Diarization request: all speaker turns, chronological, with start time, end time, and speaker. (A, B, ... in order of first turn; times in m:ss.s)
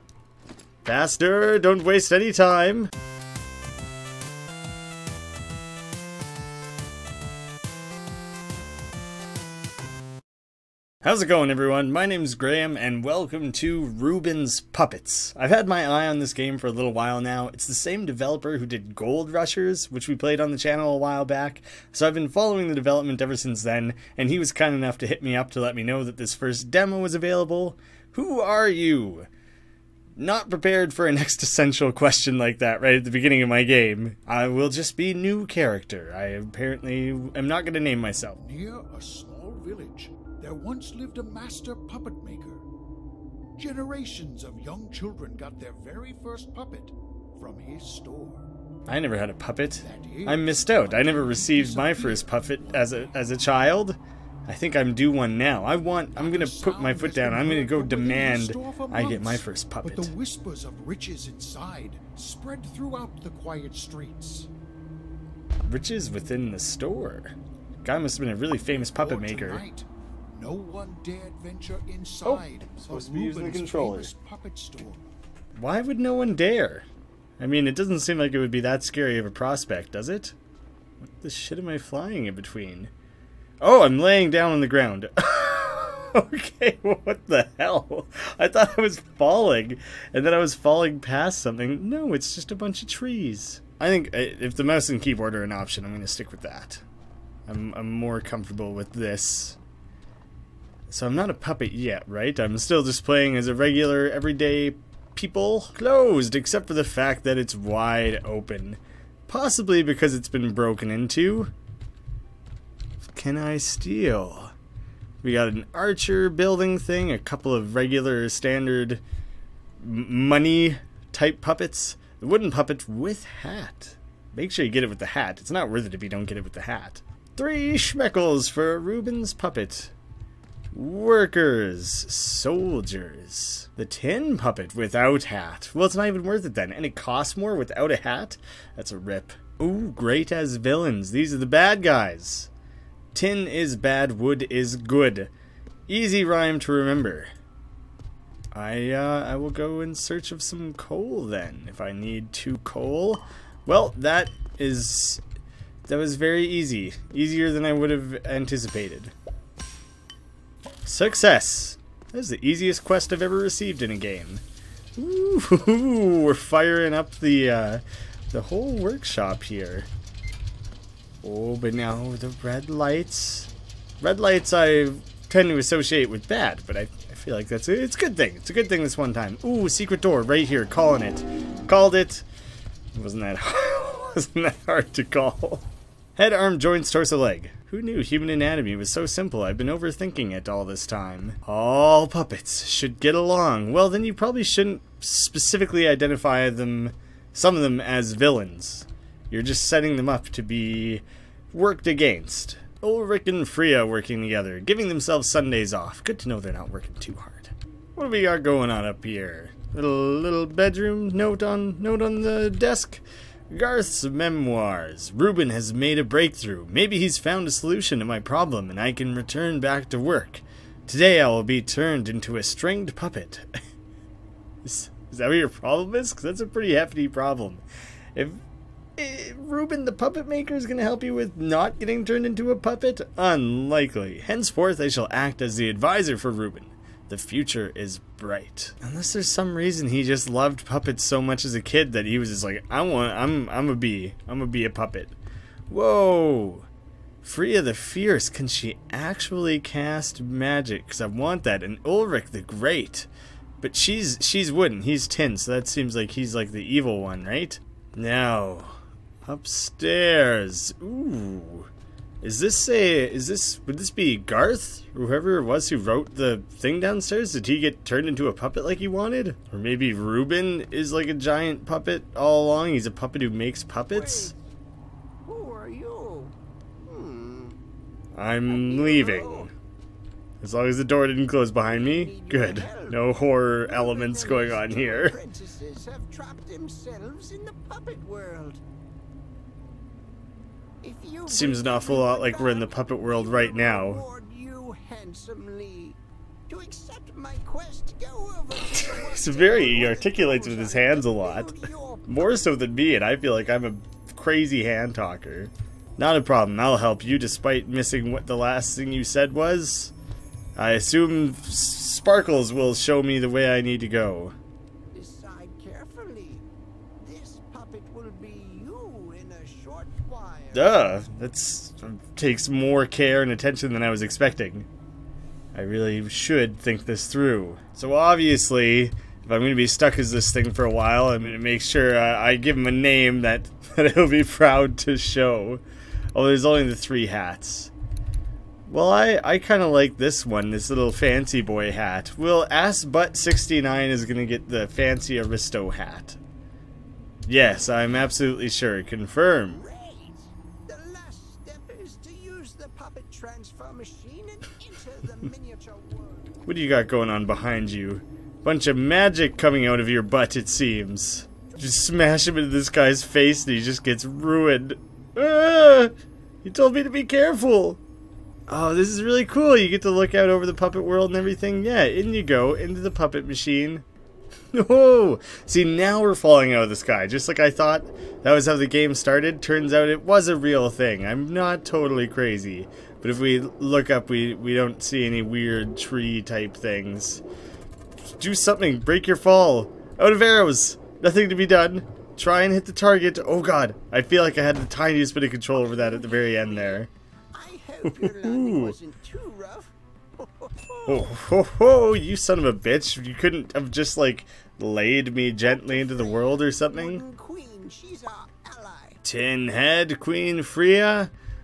0:00.8-0:02.9 A
0:11.0-0:29.3 A
0:30.2-0:38.4 A
0:38.5-0:42.6 B
0:38.5-0:38.9 C
0:40.2-0:41.4 C
0:41.9-0:42.6 C
0:43.6-0:44.3 C
0:43.6-0:48.3 B
0:47.5-0:48.4 C
0:48.9-1:00.1 A
0:49.9-0:50.3 B
0:50.0-0:52.7 C
0:51.8-0:52.1 B
0:56.2-0:59.2 C
0:57.6-0:59.3 B
0:59.8-1:00.9 C
1:00.1-1:04.2 B
1:01.5-1:01.7 C
1:03.7-1:04.5 C
1:05.7-1:09.7 A
1:09.0-1:09.7 C
1:09.7-1:12.0 B
1:11.2-1:14.9 C
1:12.2-1:14.1 A
1:13.4-1:15.0 B
1:15.6-1:16.8 A
1:17.4-1:20.4 A
1:21.0-1:22.9 A
1:23.6-1:36.8 A
1:37.5-1:39.6 A
1:40.9-1:51.5 A
1:53.0-1:54.5 A
1:55.2-1:59.0 A
1:59.8-2:09.9 A
2:10.7-2:22.5 A
2:23.1-2:25.3 A
2:25.9-2:27.3 A
2:28.5-2:35.2 A
2:35.8-2:39.1 A
2:40.8-2:44.4 A
2:45.0-2:49.9 A
2:51.2-3:02.2 A
3:02.9-3:43.5 A
3:44.6-3:47.6 A
3:48.2-3:48.4 A
3:49.0-4:05.2 A
4:05.7-4:06.7 A
4:07.2-4:21.7 A
4:22.2-4:34.4 A
4:33.9-4:34.4 C
4:35.2-4:37.6 C
4:38.2-4:39.5 A
4:38.5-4:39.5 C
4:40.4-4:45.2 A
4:41.7-4:43.0 C
4:43.6-4:48.6 C
4:50.8-5:02.4 C
4:51.3-4:54.0 A
4:58.6-5:10.0 A
5:10.6-5:14.4 A
5:14.9-5:16.5 C
5:17.0-5:20.8 C
5:20.5-5:24.7 A
5:25.5-5:35.6 A
5:36.1-5:37.7 A
5:38.7-5:46.2 A
5:47.3-5:49.6 A
5:49.5-5:56.4 C
5:56.4-6:05.9 A
6:06.4-6:07.8 A
6:08.5-6:13.8 A
6:14.5-6:27.2 A
6:28.2-6:36.9 A
6:35.5-6:41.1 C
6:37.8-6:38.8 A
6:40.9-6:47.0 A
6:45.4-6:49.0 C
6:49.0-6:51.1 A